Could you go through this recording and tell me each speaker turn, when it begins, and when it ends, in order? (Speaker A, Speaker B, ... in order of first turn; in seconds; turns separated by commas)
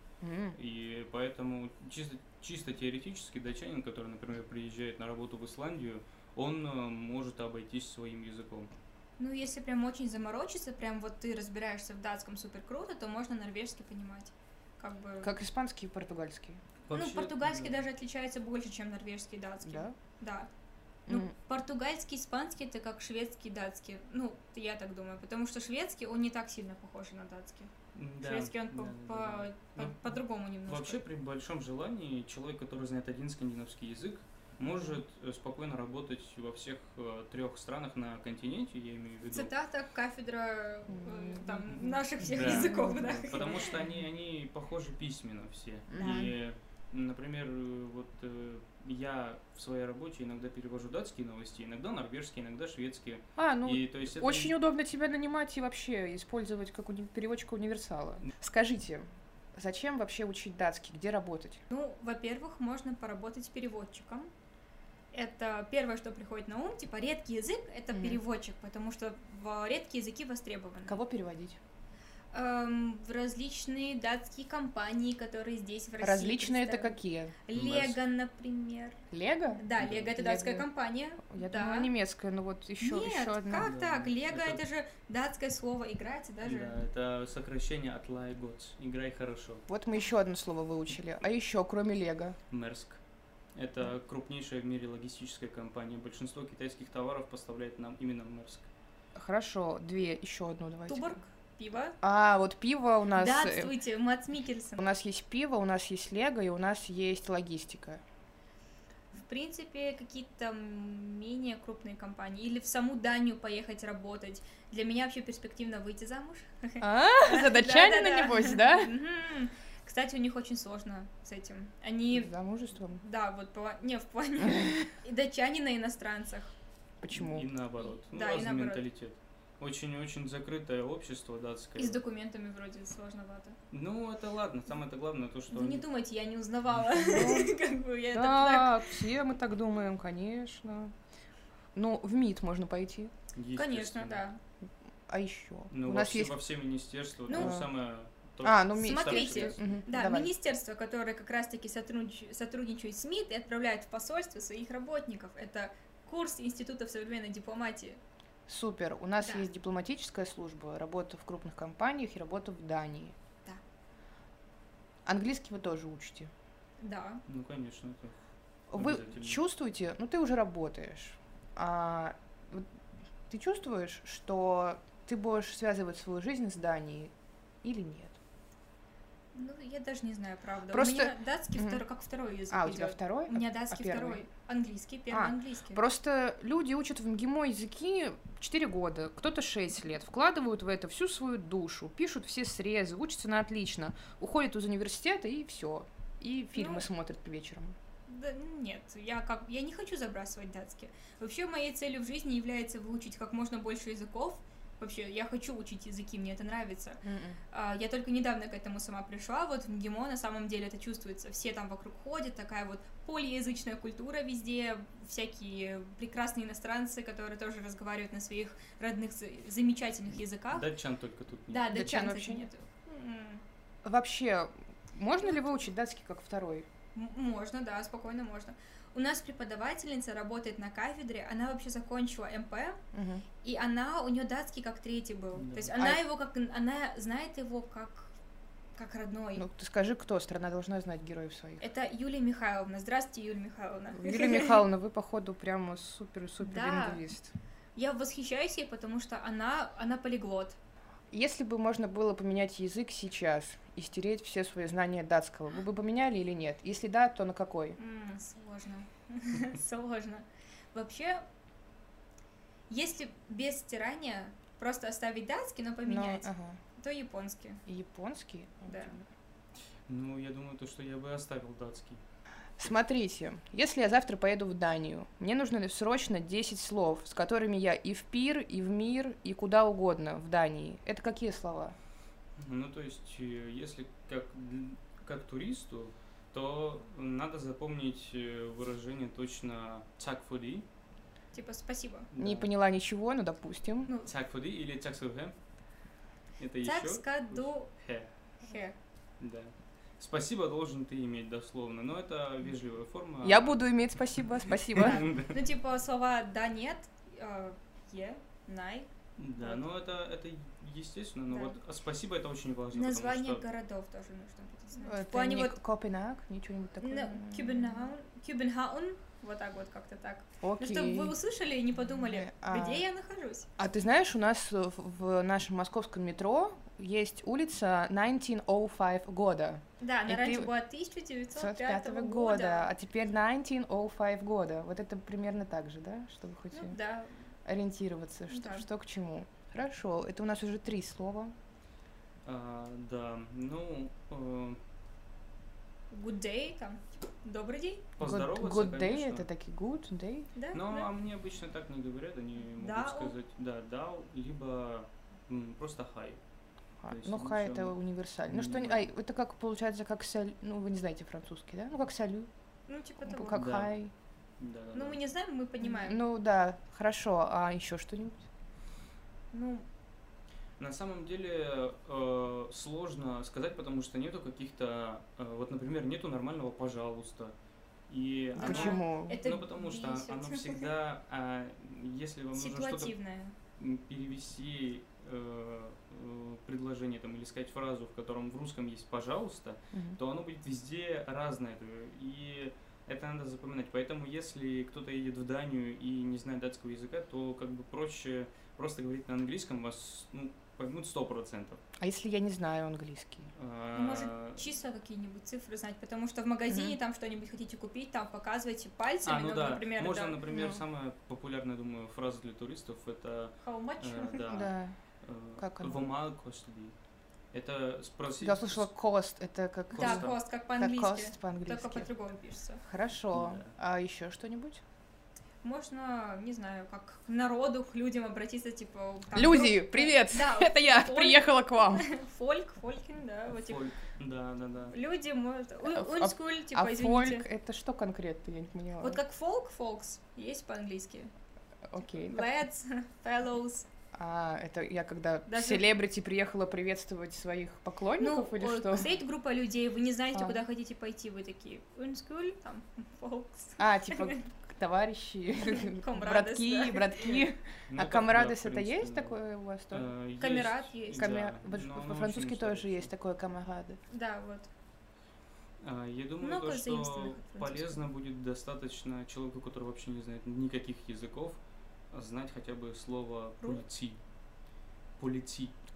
Speaker A: 0.2-0.6, Speaker B: 0.5-8.7, Speaker C: 9.2-15.3, Speaker A: 15.2-16.6, Speaker B: 16.9-17.8, Speaker C: 16.9-20.5, Speaker A: 19.6-19.9, Speaker A: 21.1-21.3, Speaker C: 21.1-31.0, Speaker B: 27.9-39.5, Speaker A: 34.6-35.0, Speaker C: 39.3-43.7, Speaker A: 40.9-43.8, Speaker B: 42.2-54.5, Speaker A: 45.9-46.3, Speaker C: 46.0-46.3, Speaker A: 53.4-61.6, Speaker C: 61.7-64.3, Speaker C: 65.1-71.0, Speaker A: 67.9-68.2, Speaker A: 70.8-71.6, Speaker C: 72.3-79.0, Speaker A: 76.0-77.3, Speaker B: 77.5-78.0, Speaker A: 79.1-80.7, Speaker C: 79.5-81.9, Speaker B: 79.8-80.2, Speaker A: 81.3-83.7, Speaker C: 82.8-86.8, Speaker B: 83.5-84.6, Speaker B: 86.4-89.6, Speaker A: 89.7-92.4, Speaker B: 92.5-93.0, Speaker B: 93.5-98.7, Speaker A: 99.1-101.2, Speaker C: 100.9-102.0, Speaker A: 102.0-103.7, Speaker C: 103.1-104.8, Speaker A: 104.8-108.0, Speaker C: 109.1-122.3, Speaker A: 116.8-118.9, Speaker A: 122.1-123.0, Speaker C: 123.0-126.5, Speaker A: 124.5-124.8, Speaker A: 127.0-127.5, Speaker B: 127.1-132.0, Speaker C: 128.0-128.8, Speaker C: 131.8-133.6, Speaker B: 133.7-135.8, Speaker C: 135.5-138.9, Speaker A: 137.0-137.6, Speaker A: 138.1-140.9, Speaker A: 141.7-143.1, Speaker B: 143.3-144.2, Speaker C: 143.6-144.4, Speaker A: 145.1-146.3, Speaker B: 145.7-149.8, Speaker C: 147.3-147.6, Speaker A: 147.3-147.7, Speaker A: 148.4-150.3, Speaker C: 148.8-158.0, Speaker A: 158.5-163.1, Speaker C: 159.2-159.5, Speaker A: 165.1-166.3, Speaker C: 166.8-167.2, Speaker B: 167.3-168.1, Speaker A: 168.7-172.7, Speaker B: 168.7-169.4, Speaker A: 173.3-177.1, Speaker A: 177.6-178.2, Speaker C: 179.3-185.8, Speaker A: 180.7-181.8, Speaker A: 182.5-184.2, Speaker A: 185.1-197.8, Speaker C: 196.5-196.8, Speaker C: 198.1-220.7, Speaker A: 207.0-207.4, Speaker B: 220.5-221.7, Speaker C: 221.5-223.4, Speaker A: 221.7-222.5, Speaker A: 223.8-226.7, Speaker C: 225.2-225.6, Speaker C: 226.9-232.8, Speaker A: 232.9-233.2, Speaker C: 233.4-238.1, Speaker B: 235.3-235.7, Speaker C: 238.8-239.4, Speaker A: 239.3-241.6, Speaker C: 241.6-244.6, Speaker A: 243.9-247.3, Speaker C: 246.4-247.0, Speaker C: 247.8-250.6, Speaker A: 251.1-257.8, Speaker C: 257.8-261.2, Speaker C: 262.7-267.6, Speaker A: 265.9-266.6, Speaker A: 267.7-269.1, Speaker C: 268.7-268.9, Speaker B: 269.9-272.0, Speaker A: 272.6-281.8, Speaker B: 282.4-290.6, Speaker C: 291.3-292.1, Speaker B: 292.1-292.5, Speaker A: 292.2-293.9, Speaker B: 294.0-295.3, Speaker B: 296.4-298.1, Speaker C: 296.6-297.7, Speaker C: 298.4-298.8, Speaker B: 299.2-305.3, Speaker A: 303.2-305.1, Speaker C: 304.8-309.6, Speaker B: 309.2-313.4, Speaker C: 311.3-311.6, Speaker C: 312.7-315.6, Speaker A: 314.8-317.9, Speaker C: 316.8-323.5, Speaker A: 320.4-321.1, Speaker A: 321.9-322.8, Speaker A: 323.6-330.5, Speaker C: 329.8-332.7, Speaker A: 331.3-336.8, Speaker C: 336.5-337.1, Speaker A: 337.4-341.3, Speaker C: 338.3-338.6, Speaker B: 342.2-344.6, Speaker C: 345.9-347.9, Speaker B: 348.0-349.3, Speaker A: 348.0-350.3, Speaker C: 350.4-350.9, Speaker B: 350.5-356.2, Speaker C: 352.6-353.1, Speaker A: 356.8-362.3, Speaker B: 356.9-358.9, Speaker C: 362.7-363.4, Speaker A: 363.0-363.9, Speaker B: 363.3-363.8, Speaker B: 364.4-365.0, Speaker C: 364.7-366.0, Speaker A: 365.6-368.2, Speaker C: 369.3-369.6, Speaker B: 370.6-377.3, Speaker B: 377.9-382.9, Speaker C: 378.4-380.7, Speaker A: 378.4-379.2, Speaker C: 382.3-383.3, Speaker B: 383.6-401.6, Speaker A: 389.7-390.0, Speaker A: 401.8-403.3, Speaker B: 403.4-404.4, Speaker C: 403.7-410.2, Speaker A: 406.5-406.8, Speaker B: 409.0-416.7, Speaker A: 410.3-410.6, Speaker C: 413.4-414.2, Speaker A: 414.3-414.7, Speaker A: 415.4-415.8, Speaker B: 417.3-418.7, Speaker A: 418.2-421.9, Speaker B: 419.7-420.1, Speaker C: 419.8-422.6, Speaker A: 422.6-424.6, Speaker B: 423.1-423.5, Speaker C: 425.4-433.6, Speaker A: 429.1-431.9, Speaker B: 433.3-434.8, Speaker C: 434.7-437.2, Speaker A: 435.6-439.0, Speaker C: 438.8-441.1, Speaker A: 441.7-442.3, Speaker C: 441.9-443.7, Speaker A: 443.9-448.9, Speaker C: 445.3-445.6, Speaker C: 448.0-454.2, Speaker A: 450.1-450.4, Speaker A: 453.6-459.9, Speaker C: 455.4-457.2, Speaker B: 457.7-459.2, Speaker B: 459.7-462.9, Speaker C: 460.2-461.1, Speaker A: 461.0-463.8, Speaker C: 463.9-464.5, Speaker B: 465.6-471.4, Speaker C: 466.2-467.8, Speaker B: 471.9-474.0, Speaker B: 475.0-475.5